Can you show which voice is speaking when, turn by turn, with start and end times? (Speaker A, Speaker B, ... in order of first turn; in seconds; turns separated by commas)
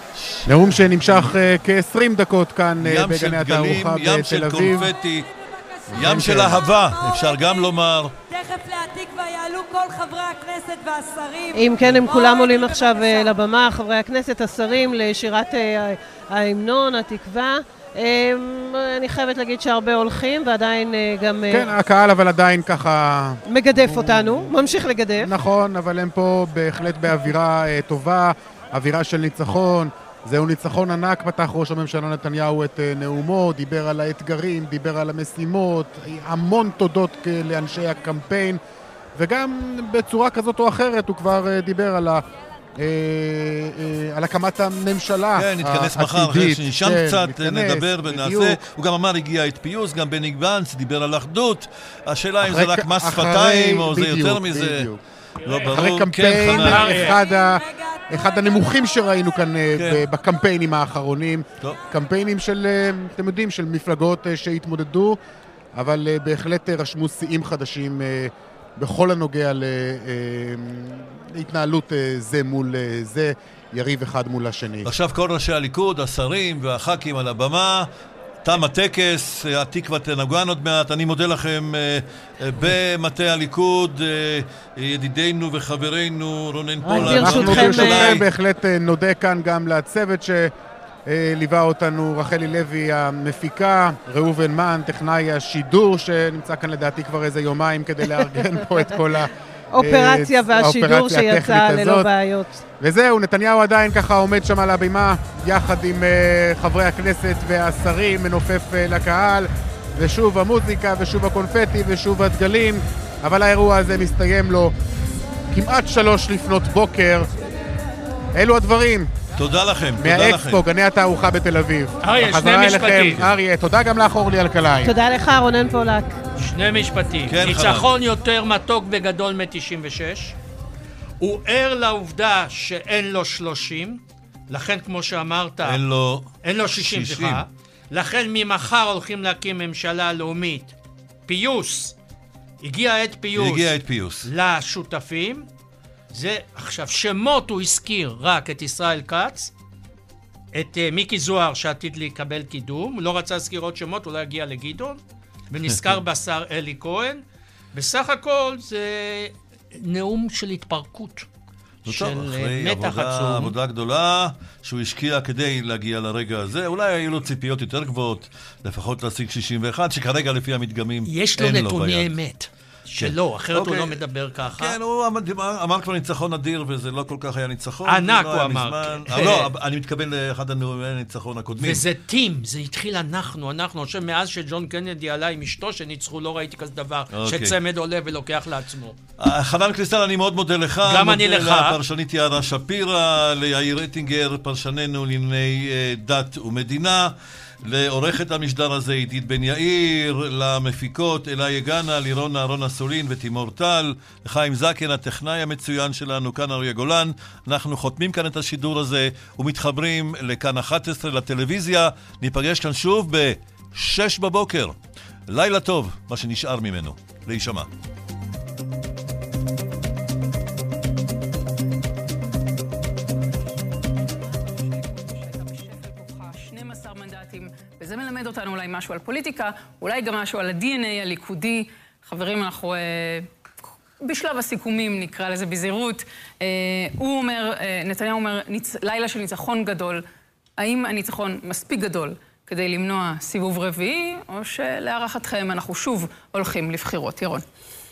Speaker A: 0.2-1.4, Speaker B: 0.5-4.9, Speaker A: 2.8-5.3, Speaker C: 5.3-7.4, Speaker B: 5.9-6.6, Speaker A: 5.9-8.1, Speaker C: 8.3-13.3, Speaker D: 11.5-21.7, Speaker B: 21.5-24.5, Speaker D: 23.4-25.3, Speaker B: 25.2-38.6, Speaker B: 39.2-42.2, Speaker B: 42.8-48.6, Speaker A: 45.4-54.9, Speaker B: 52.4-55.0, Speaker A: 55.4-57.1, Speaker B: 55.7-65.2, Speaker E: 56.5-57.1, Speaker C: 57.0-59.2, Speaker A: 59.7-60.1, Speaker B: 65.7-74.9, Speaker A: 74.8-77.9, Speaker A: 78.5-88.3, Speaker D: 86.8-88.2, Speaker B: 86.9-90.5, Speaker B: 91.1-102.1, Speaker D: 99.7-102.6, Speaker B: 102.8-114.7, Speaker B: 115.5-117.3, Speaker B: 118.3-119.1, Speaker A: 119.4-120.6, Speaker B: 120.0-124.9, Speaker E: 122.0-123.2, Speaker D: 124.8-126.2, Speaker E: 126.4-130.3, Speaker A: 127.3-127.9, Speaker E: 131.2-135.8, Speaker A: 135.6-137.4, Speaker E: 136.4-140.7, Speaker E: 141.3-141.9, Speaker E: 142.6-145.5, Speaker A: 143.3-144.3, Speaker E: 146.1-149.5, Speaker E: 150.5-157.2, Speaker E: 157.7-161.3, Speaker E: 161.8-163.5, Speaker A: 161.9-172.1, Speaker E: 171.1-174.8, Speaker A: 173.0-174.0, Speaker A: 174.5-181.8, Speaker E: 177.9-179.5, Speaker E: 181.6-189.0, Speaker A: 187.1-187.6, Speaker A: 189.2-214.8, Speaker E: 190.8-191.8, Speaker A: 215.3-217.7, Speaker F: 224.5-233.3, Speaker F: 234.0-240.1, Speaker F: 240.6-247.4